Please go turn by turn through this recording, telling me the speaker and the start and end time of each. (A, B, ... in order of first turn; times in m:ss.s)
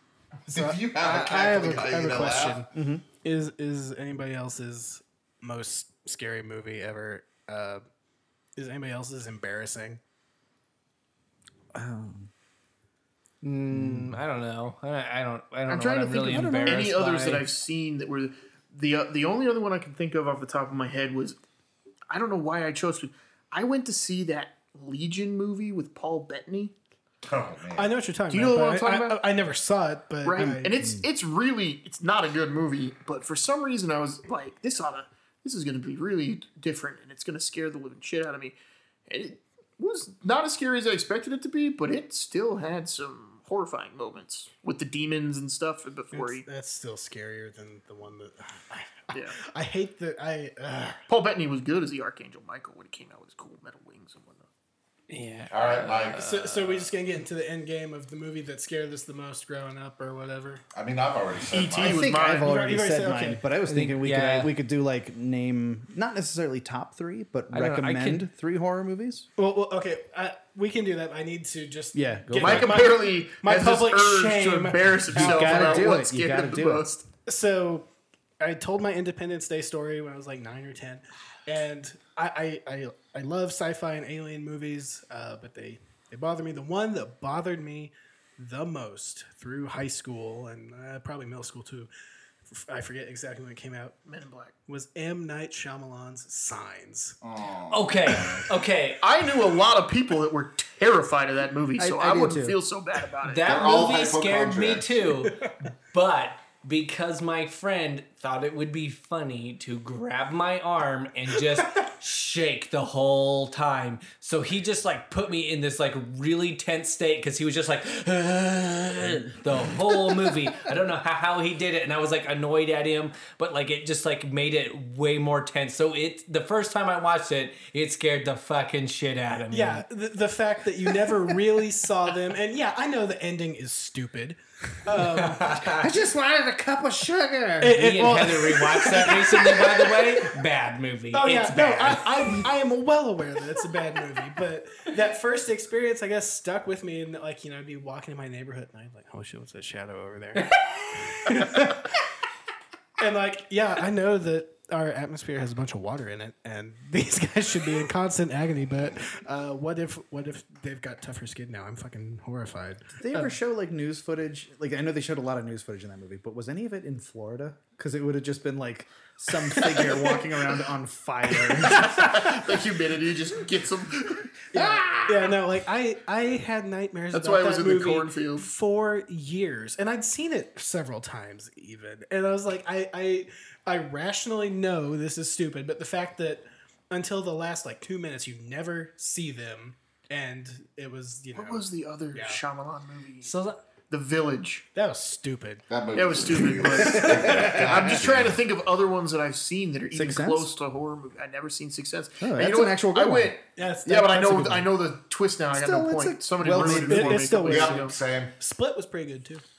0:00.5-0:07.8 A
0:00.5-0:02.6 B
0:02.7-0:03.0 C
0:08.6-0:10.0 A
0:11.7-0:12.3 C
0:13.4-0:17.4 D
0:13.7-0:14.2 C
0:15.7-0:17.0 C
0:16.6-0:21.4 E
0:22.1-0:26.7 E
0:27.2-0:27.9 B
0:27.7-0:30.7 A
0:28.3-0:29.2 E
0:30.2-0:38.6 E
0:30.4-0:31.0 C
0:39.1-0:46.4 E
0:46.1-0:51.0 A
0:49.1-0:49.4 E
0:51.1-0:54.5 E
0:55.1-0:56.9 D
0:55.5-0:56.2 B
0:56.1-1:00.6 A
1:00.7-1:02.0 B
1:01.5-1:02.5 E
1:01.8-1:09.3 C
1:02.3-1:03.4 A
1:03.7-1:04.5 D
1:07.5-1:08.2 D
1:09.4-1:15.8 A
1:11.9-1:12.8 C
1:12.4-1:17.1 E
1:15.2-1:16.9 C
1:17.2-1:17.9 A
1:18.4-1:31.9 A
1:32.5-1:34.0 A
1:34.1-1:34.5 E
1:34.7-1:37.2 A
1:37.2-1:38.5 B
1:37.7-1:39.0 D
1:39.0-1:43.9 E
1:41.8-1:42.6 C
1:43.2-2:09.8 D
1:43.4-1:45.0 B
2:09.5-2:15.8 A
2:14.9-2:15.9 D
2:15.6-2:17.8 C
2:17.6-2:20.4 A
2:17.6-2:22.4 D
2:21.1-2:31.9 A
2:30.4-2:31.7 D
2:33.0-2:43.4 A
2:43.0-2:52.3 C
2:49.5-2:50.2 A
2:51.5-2:52.4 A
2:51.8-2:54.3 E
2:54.5-2:55.1 C
2:54.6-3:12.4 A
2:57.1-2:58.5 E
3:11.4-3:13.3 E
3:13.2-3:13.6 D
3:13.9-3:14.7 E
3:14.8-3:15.6 A
3:15.7-3:18.4 B
3:16.0-3:28.0 E
3:16.8-3:17.8 A
3:19.9-3:20.5 C
3:22.2-3:23.4 C
3:23.6-3:24.7 A
3:25.5-3:27.7 C
3:26.5-3:29.4 A
3:27.4-3:28.4 B